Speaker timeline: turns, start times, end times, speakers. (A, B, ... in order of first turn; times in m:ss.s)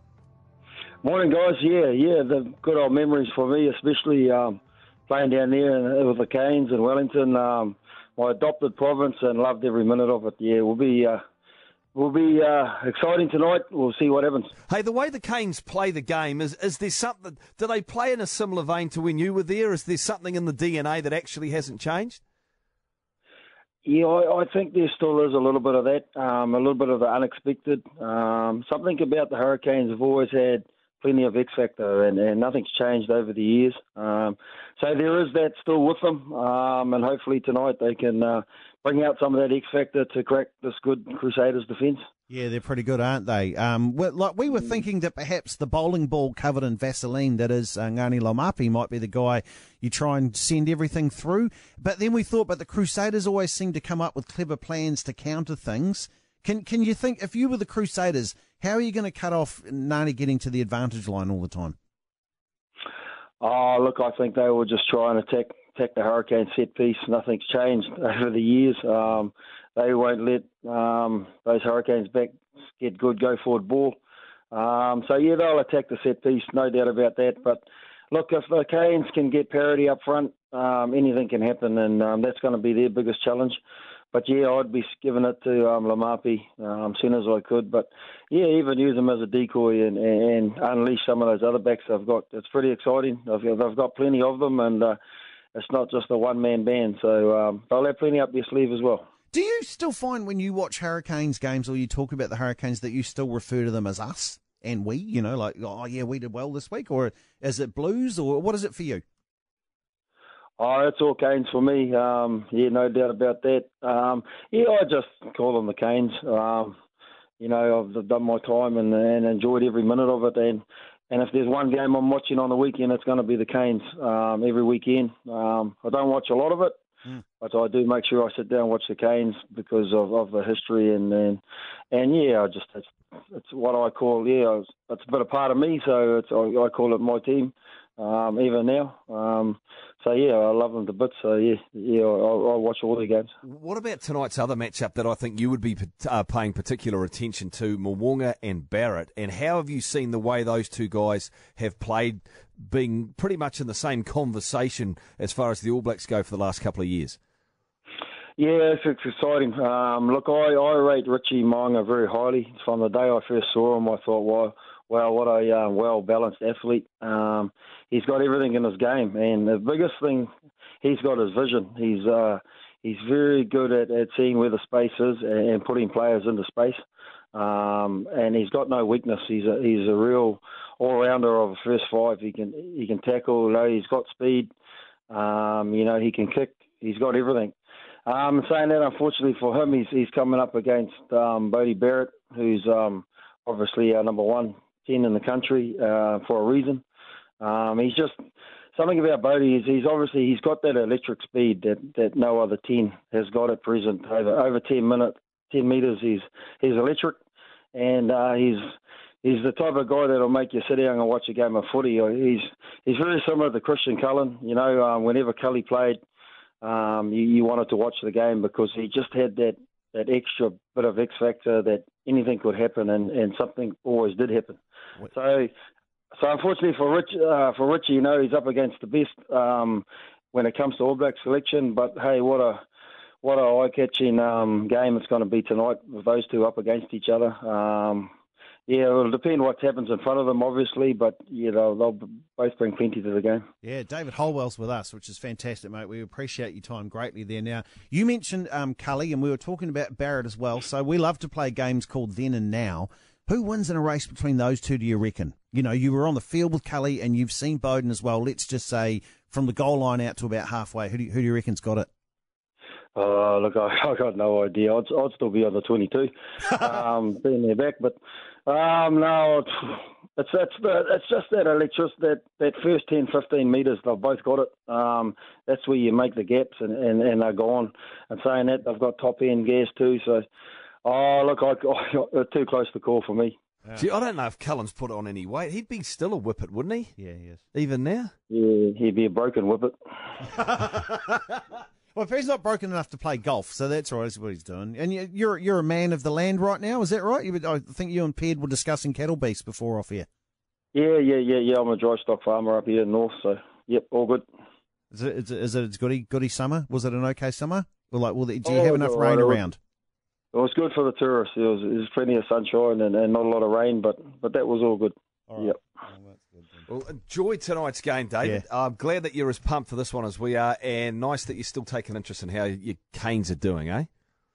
0:01.0-0:04.6 A
0:05.1-0:11.2 A
0:11.9-0:14.5 A
0:14.7-0:22.2 B
0:23.8-0:42.0 A
0:42.3-1:01.7 C
1:03.4-1:14.0 A
1:14.5-1:23.6 A
1:24.1-1:35.0 A
1:35.5-1:39.1 A
1:39.3-1:49.0 C
1:50.6-1:56.8 A
1:57.4-2:06.8 A
2:07.4-2:11.4 A
2:11.9-2:23.3 A
2:23.4-2:37.2 B
2:38.4-2:50.3 A
2:50.8-2:56.8 A
2:57.3-3:04.5 A
3:05.1-3:07.5 A
3:08.0-3:16.8 A
3:17.4-3:18.1 A
3:18.7-3:27.2 A
3:27.7-3:28.7 A
3:29.2-3:36.0 A
3:36.6-3:45.5 A
3:46.2-3:52.6 A
3:53.2-3:58.1 A
3:58.7-4:03.4 A
4:03.6-4:21.9 C
4:22.9-4:40.2 A
4:40.8-4:43.4 A
4:43.7-4:46.9 B
4:47.0-4:47.4 C
4:47.5-4:48.1 B
4:48.3-4:49.7 A
4:50.3-4:51.0 C
4:51.9-5:00.1 C
5:00.7-5:04.2 A
5:04.9-5:09.6 C
5:08.4-5:09.4 A
5:10.3-5:15.6 A
5:15.3-5:16.6 C
5:16.7-5:23.9 B